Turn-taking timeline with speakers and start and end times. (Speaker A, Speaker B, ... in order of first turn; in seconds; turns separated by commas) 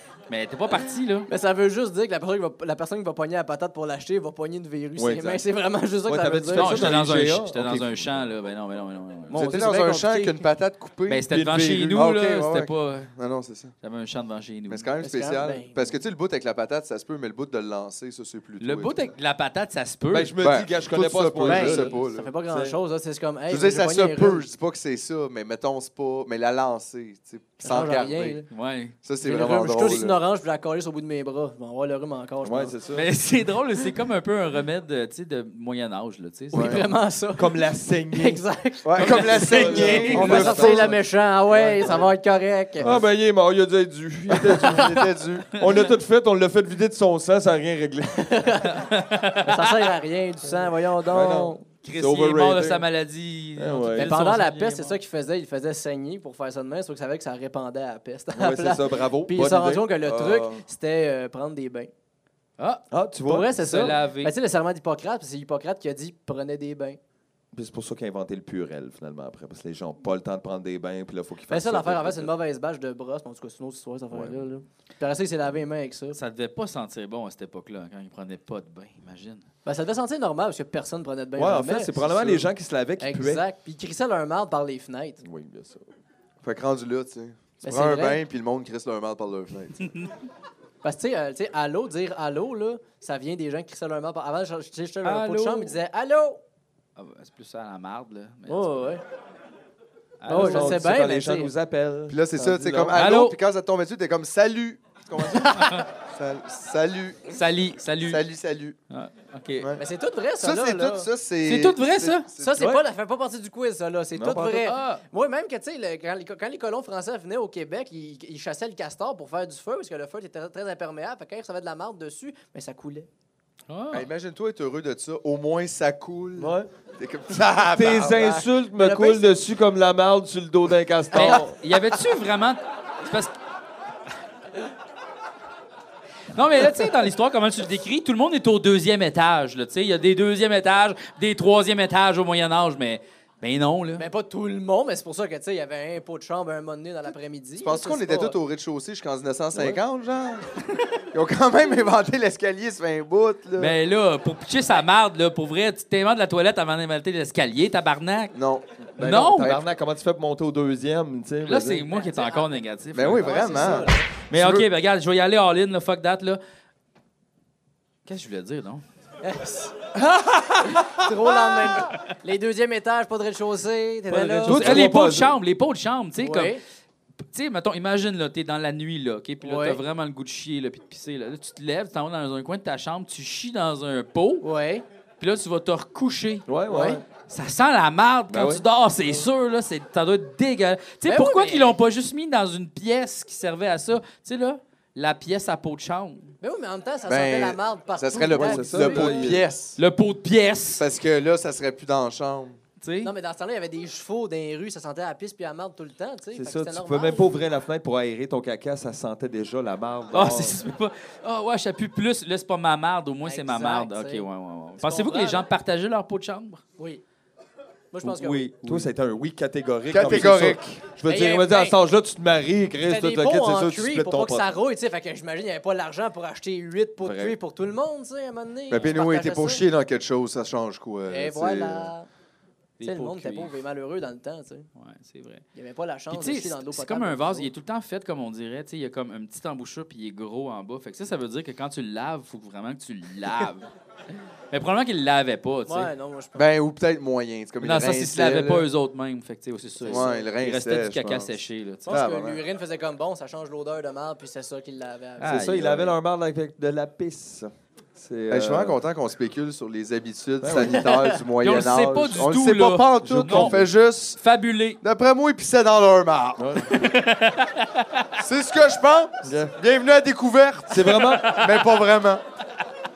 Speaker A: 0.3-1.3, Speaker B: 1.3-7.0, Speaker C: 5.0-5.4, Speaker C: 6.0-8.2, Speaker A: 6.5-9.4, Speaker B: 9.3-10.4, Speaker D: 9.3-11.3, Speaker A: 11.1-13.1, Speaker C: 11.3-12.1, Speaker D: 11.9-13.7, Speaker A: 13.8-14.9, Speaker D: 14.7-19.1, Speaker B: 15.0-15.9, Speaker A: 18.6-20.3, Speaker C: 20.1-22.8, Speaker D: 20.4-22.3, Speaker B: 21.4-24.5, Speaker D: 23.5-28.4, Speaker B: 27.6-28.5, Speaker A: 28.5-28.9, Speaker D: 29.0-30.2, Speaker B: 29.2-32.8, Speaker C: 32.4-33.0, Speaker A: 32.9-36.9, Speaker B: 36.5-43.0, Speaker D: 36.5-36.8, Speaker C: 37.4-38.4, Speaker D: 38.8-40.9, Speaker A: 39.0-40.7, Speaker C: 39.0-42.1, Speaker C: 42.8-45.0, Speaker D: 44.3-45.5, Speaker B: 44.5-45.0, Speaker C: 45.5-48.7, Speaker B: 48.2-48.7, Speaker A: 48.7-49.6, Speaker B: 49.4-51.6, Speaker C: 51.0-52.8, Speaker A: 51.8-55.0, Speaker C: 53.6-54.2, Speaker B: 54.0-61.9, Speaker C: 58.3-60.6, Speaker A: 62.6-62.8, Speaker C: 62.9-63.9, Speaker B: 63.2-67.0, Speaker A: 63.5-64.3, Speaker C: 67.5-72.3, Speaker B: 71.5-76.2, Speaker C: 74.1-74.5, Speaker A: 76.1-79.4, Speaker B: 79.6-82.5, Speaker C: 81.3-83.4, Speaker B: 83.0-85.2, Speaker C: 85.2-85.9, Speaker D: 86.4-89.8, Speaker B: 87.6-88.2, Speaker B: 90.8-96.4, Speaker A: 95.0-95.8, Speaker A: 97.0-99.0, Speaker B: 98.5-99.0, Speaker A: 100.2-100.8, Speaker B: 100.3-101.5, Speaker C: 100.3-103.0, Speaker D: 102.1-107.4, Speaker A: 102.9-103.4, Speaker A: 105.5-105.8, Speaker A: 107.3-108.2, Speaker D: 108.0-108.8, Speaker A: 108.9-109.7, Speaker B: 109.8-111.1, Speaker D: 110.4-112.6, Speaker A: 111.4-112.3, Speaker B: 112.3-123.1, Speaker C: 112.6-112.8, Speaker C: 114.1-114.7, Speaker A: 114.6-115.0, Speaker A: 123.7-124.1, Speaker D: 123.9-128.2, Speaker C: 126.4-126.7, Speaker C: 127.7-131.6, Speaker B: 128.2-129.3, Speaker A: 131.1-133.3, Speaker A: 136.3-144.1, Speaker B: 143.9-148.4, Speaker D: 147.6-150.5, Speaker C: 149.5-149.8, Speaker D: 151.1-153.7, Speaker A: 153.6-158.3, Speaker D: 158.3-159.6, Speaker C: 158.9-161.8, Speaker A: 159.0-159.5, Speaker A: 161.4-166.4, Speaker B: 161.9-162.6, Speaker D: 162.9-164.7, Speaker B: 163.1-164.1, Speaker A: 168.0-168.8, Speaker B: 169.2-169.8, Speaker C: 170.1-170.5, Speaker B: 170.8-174.8, Speaker C: 174.1-175.4, Speaker A: 174.4-176.6, Speaker B: 176.2-176.6, Speaker A: 177.3-184.4, Speaker B: 179.4-179.8, Speaker B: 184.4-184.8, Speaker A: 185.2-186.5, Speaker C: 186.5-187.0, Speaker B: 186.7-187.0, Speaker A: 187.3-196.3, Speaker C: 188.3-188.6, Speaker B: 191.1-191.7, Speaker B: 196.4-199.2, Speaker D: 197.1-199.8, Speaker C: 198.3-199.4, Speaker A: 199.8-200.8, Speaker D: 200.8-202.6, Speaker A: 202.8-203.1, Speaker B: 203.0-207.4, Speaker C: 206.3-210.6, Speaker A: 210.1-216.6, Speaker B: 213.2-214.3, Speaker B: 214.8-215.4, Speaker B: 216.8-217.0, Speaker B: 217.9-218.5, Speaker C: 218.0-224.6, Speaker A: 218.6-218.9, Speaker D: 219.9-220.8, Speaker B: 221.0-221.8, Speaker B: 222.8-229.6, Speaker C: 227.0-227.4, Speaker D: 228.7-231.9, Speaker B: 231.1-232.1, Speaker A: 232.8-233.5, Speaker B: 232.8-234.7, Speaker A: 234.8-235.4, Speaker B: 235.5-237.5, Speaker A: 236.1-243.7, Speaker A: 244.5-245.9, Speaker B: 245.7-246.4, Speaker D: 246.3-248.7, Speaker A: 247.6-252.0, Speaker B: 249.8-250.3, Speaker D: 249.9-252.4, Speaker B: 251.8-255.4, Speaker A: 255.2-255.9, Speaker C: 255.2-258.8, Speaker D: 258.3-264.2, Speaker C: 260.4-260.9, Speaker B: 260.8-261.1, Speaker A: 261.4-263.6, Speaker C: 263.0-263.7, Speaker A: 264.1-264.8, Speaker D: 264.8-266.7, Speaker C: 266.4-266.7, Speaker A: 266.7-268.1, Speaker D: 268.2-272.2, Speaker C: 269.2-269.6, Speaker C: 270.7-271.4